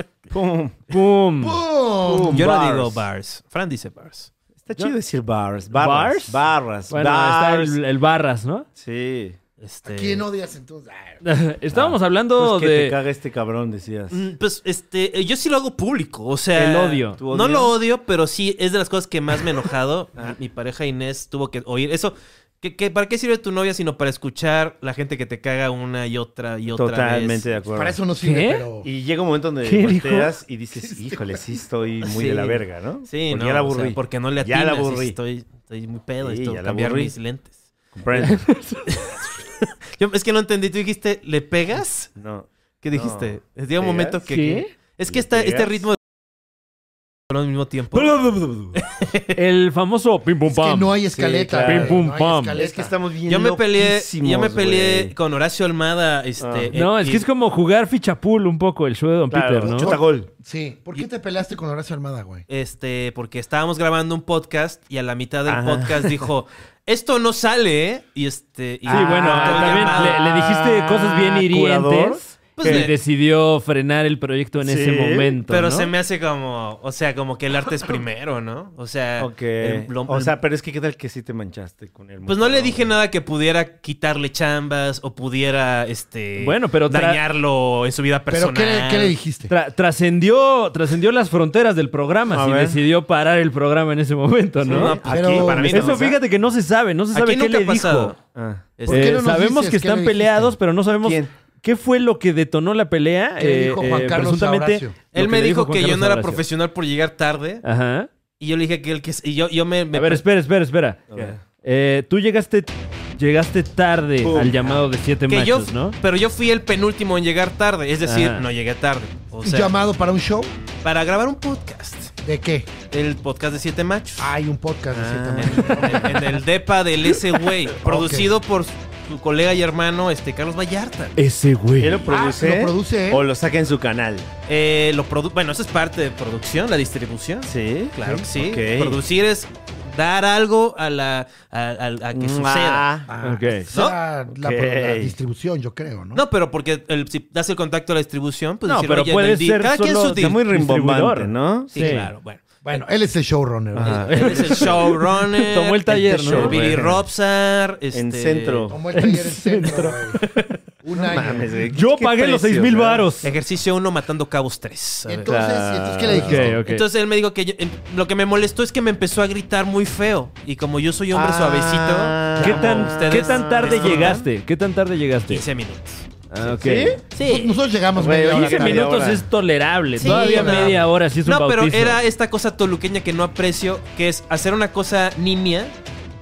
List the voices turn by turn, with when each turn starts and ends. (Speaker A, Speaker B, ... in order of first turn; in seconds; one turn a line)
Speaker A: 0.3-0.8
Speaker B: 0.9-1.6
Speaker C: 1.4-2.5
Speaker A: 2.0-3.1
Speaker D: 2.3-4.3
Speaker A: 4.6-7.8
Speaker B: 5.7-8.7
Speaker A: 8.8-9.4
Speaker D: 9.6-10.2
Speaker C: 9.9-11.2
Speaker B: 11.2-13.0
Speaker A: 11.7-14.2
Speaker D: 14.1-27.5
Speaker B: 16.6-17.2
Speaker A: 17.0-17.8
Speaker A: 26.7-28.0
Speaker C: 27.7-28.9
Speaker B: 28.2-28.6
Speaker A: 28.8-35.2
Speaker B: 29.6-30.3
Speaker C: 30.8-31.4
Speaker D: 32.0-37.6
Speaker A: 36.2-37.1
Speaker A: 37.9-38.5
Speaker B: 38.2-39.0
Speaker D: 39.9-42.1
Speaker A: 42.2-44.3
Speaker D: 42.8-46.0
Speaker B: 44.3-44.7
Speaker A: 45.1-45.8
Speaker D: 47.3-48.1
Speaker A: 47.9-48.8
Speaker D: 48.8-49.4
Speaker B: 49.4-51.0
Speaker C: 50.5-53.0
Speaker A: 51.1-55.1
Speaker B: 51.6-52.6
Speaker D: 53.3-57.3
Speaker A: 56.4-56.7
Speaker B: 56.7-60.0
Speaker A: 59.3-60.3
Speaker C: 59.9-62.5
Speaker D: 62.5-70.2
Speaker A: 65.5-66.3
Speaker A: 68.9-72.9
Speaker B: 68.9-75.9
Speaker D: 72.6-73.0
Speaker A: 74.6-75.4
Speaker D: 75.5-80.3
Speaker A: 79.2-82.9
Speaker D: 82.2-89.2
Speaker B: 86.4-87.2
Speaker C: 88.3-89.5
Speaker B: 89.5-95.0
Speaker A: 92.3-92.8
Speaker A: 94.6-96.2
Speaker D: 94.7-96.1
Speaker C: 95.0-95.9
Speaker B: 95.5-98.1
Speaker D: 97.1-98.2
Speaker A: 98.3-98.8
Speaker D: 98.8-99.2
Speaker C: 98.9-100.6
Speaker B: 98.9-106.4
Speaker A: 101.0-101.3
Speaker C: 103.4-105.0
Speaker D: 105.1-107.6
Speaker B: 107.6-108.1
Speaker D: 108.4-110.2
Speaker B: 109.9-116.0
Speaker A: 111.1-111.4
Speaker A: 114.2-114.8
Speaker D: 115.3-119.8
Speaker B: 118.0-118.5
Speaker C: 119.4-120.5
Speaker D: 120.8-122.1
Speaker C: 122.2-122.7
Speaker D: 122.9-124.3
Speaker C: 124.2-126.3
Speaker A: 124.9-126.1
Speaker D: 125.4-131.2
Speaker C: 127.8-128.3
Speaker B: 131.2-132.1
Speaker A: 131.8-134.3
Speaker C: 132.1-133.2
Speaker D: 134.5-142.9
Speaker A: 137.4-139.0
Speaker A: 142.1-143.1
Speaker C: 143.1-146.2
Speaker B: 143.2-143.7
Speaker D: 143.7-144.0
Speaker A: 144.3-145.2
Speaker D: 146.1-150.4
Speaker B: 148.7-152.1
Speaker A: 150.1-152.0
Speaker D: 151.7-152.4
Speaker C: 152.6-154.6
Speaker A: 153.7-154.8
Speaker D: 153.8-158.7
Speaker B: 153.9-156.9
Speaker A: 155.8-157.0
Speaker A: 157.9-158.8
Speaker C: 158.7-160.2
Speaker B: 158.9-160.6
Speaker C: 160.8-161.6
Speaker A: 161.0-163.1
Speaker B: 161.7-163.3
Speaker D: 163.2-165.4
Speaker C: 165.1-166.6
Speaker A: 165.2-166.6
Speaker B: 166.1-166.8
Speaker D: 166.6-174.3
Speaker A: 171.1-174.2
Speaker B: 172.4-175.4
Speaker D: 175.3-176.1
Speaker B: 176.3-177.0
Speaker A: 176.4-177.0
Speaker D: 177.1-177.6
Speaker C: 177.2-179.1
Speaker A: 177.9-179.3
Speaker B: 178.3-182.0
Speaker D: 180.0-185.7
Speaker C: 180.0-180.8